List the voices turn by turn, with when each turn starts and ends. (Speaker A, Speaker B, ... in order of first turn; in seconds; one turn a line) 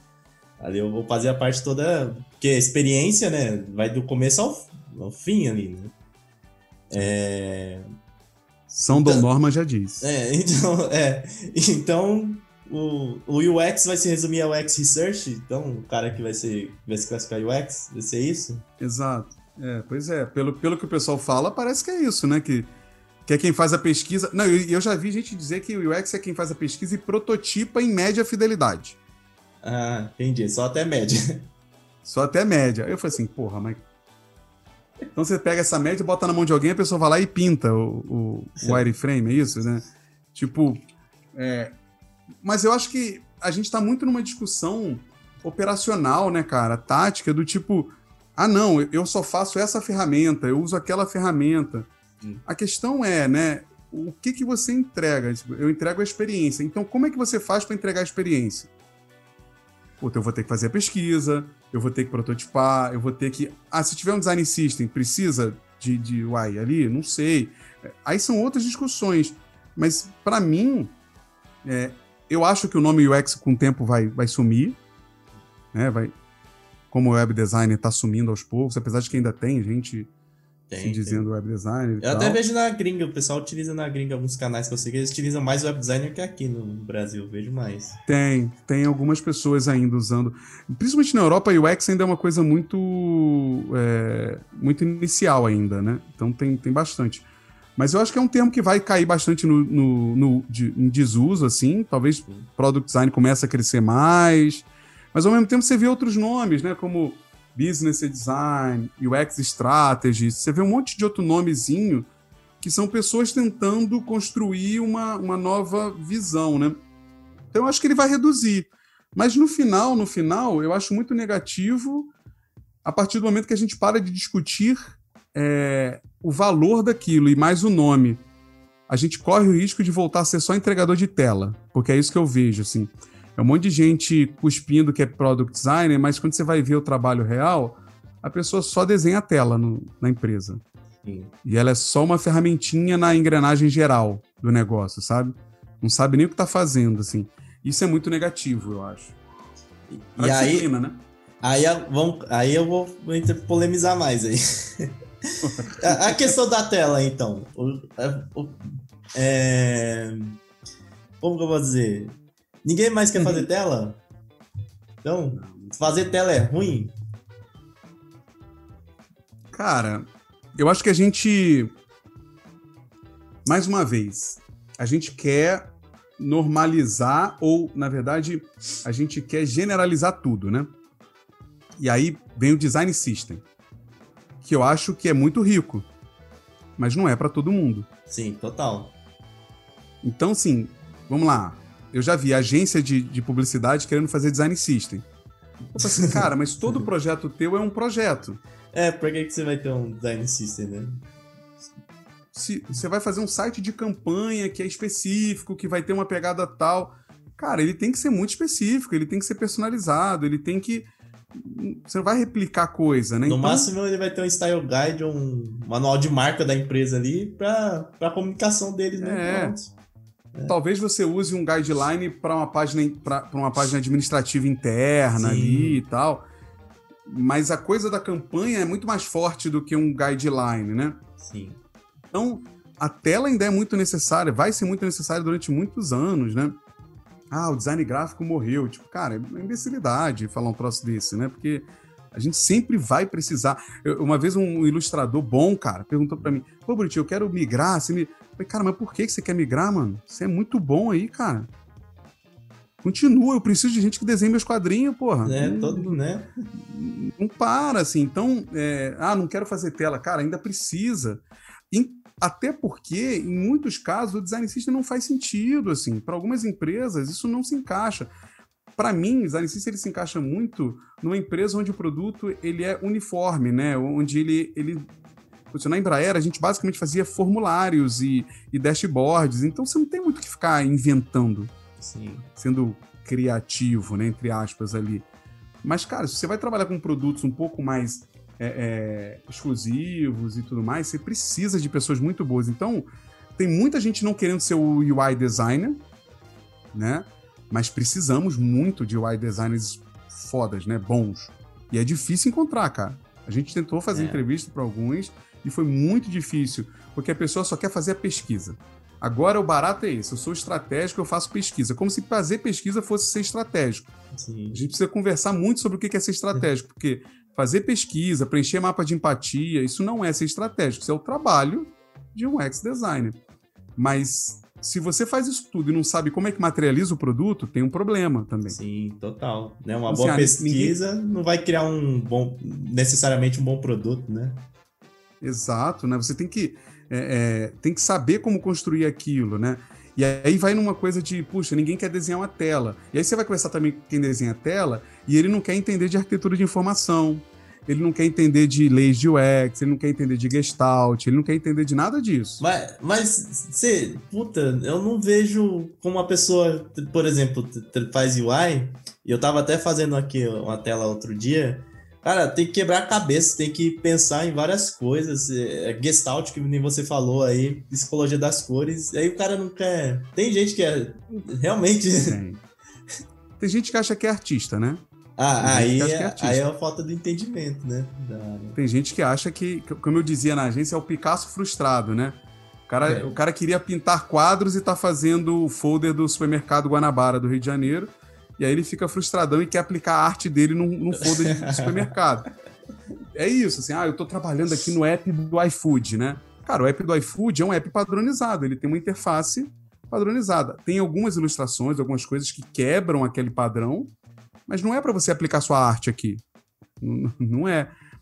Speaker A: 0.6-5.9
Speaker A: 6.9-7.8
Speaker B: 8.7-10.1
Speaker A: 8.9-9.3
Speaker A: 10.0-18.6
Speaker B: 18.8-22.7
Speaker B: 23.3-28.9
Speaker A: 29.6-31.5
Speaker B: 32.0-33.8
Speaker B: 35.1-40.8
Speaker B: 41.3-41.7
Speaker B: 42.4-51.9
Speaker B: 52.5-58.7
Speaker B: 60.0-70.9
Speaker B: 71.6-74.8
Speaker B: 75.7-76.1
Speaker B: 76.9-80.1
Speaker A: 80.7-81.3
Speaker B: 80.8-82.4
Speaker A: 82.0-88.0
Speaker B: 88.1-112.1
Speaker B: 112.6-116.8
Speaker B: 117.5-122.1
Speaker B: 122.8-128.2
Speaker B: 128.9-140.6
Speaker A: 141.0-141.3
Speaker B: 141.4-149.2
Speaker A: 149.9-150.7
Speaker B: 150.2-151.0
Speaker A: 151.4-160.4
Speaker B: 155.4-156.3
Speaker A: 161.2-164.0
Speaker B: 163.2-163.5
Speaker A: 165.0-166.9
Speaker B: 165.3-166.1
Speaker B: 169.5-171.7
Speaker B: 173.4-180.7
Speaker B: 181.8-183.4
Speaker B: 184.4-185.9
Speaker B: 186.8-187.9
Speaker A: 188.1-188.9
Speaker B: 190.0-195.1
Speaker B: 195.7-198.4
Speaker A: 195.8-196.8
Speaker A: 198.7-201.1
Speaker B: 202.3-213.7
Speaker A: 213.2-219.7
Speaker B: 219.0-219.6
Speaker B: 220.5-226.3
Speaker A: 225.2-225.8
Speaker B: 227.1-231.0
Speaker A: 231.2-231.6
Speaker B: 232.1-236.6
Speaker B: 237.3-251.5
Speaker B: 252.8-256.0
Speaker A: 255.2-256.3
Speaker B: 256.5-268.1
Speaker B: 268.8-274.9
Speaker B: 275.5-281.5
Speaker A: 281.8-282.3
Speaker B: 282.4-285.1
Speaker B: 285.6-295.8
Speaker B: 296.7-313.9
Speaker A: 303.9-304.2
Speaker A: 314.1-314.6
Speaker B: 314.5-323.2
Speaker B: 323.8-328.6
Speaker A: 328.5-334.4
Speaker B: 329.9-330.8
Speaker B: 335.2-352.4
Speaker A: 352.4-372.2
Speaker B: 372.1-372.4
Speaker B: 373.4-374.8
Speaker A: 375.2-378.6
Speaker B: 375.4-376.4
Speaker B: 378.6-392.3
Speaker A: 382.9-383.1
Speaker A: 391.0-391.9
Speaker B: 393.1-403.9
Speaker B: 404.5-406.2
Speaker B: 406.8-407.7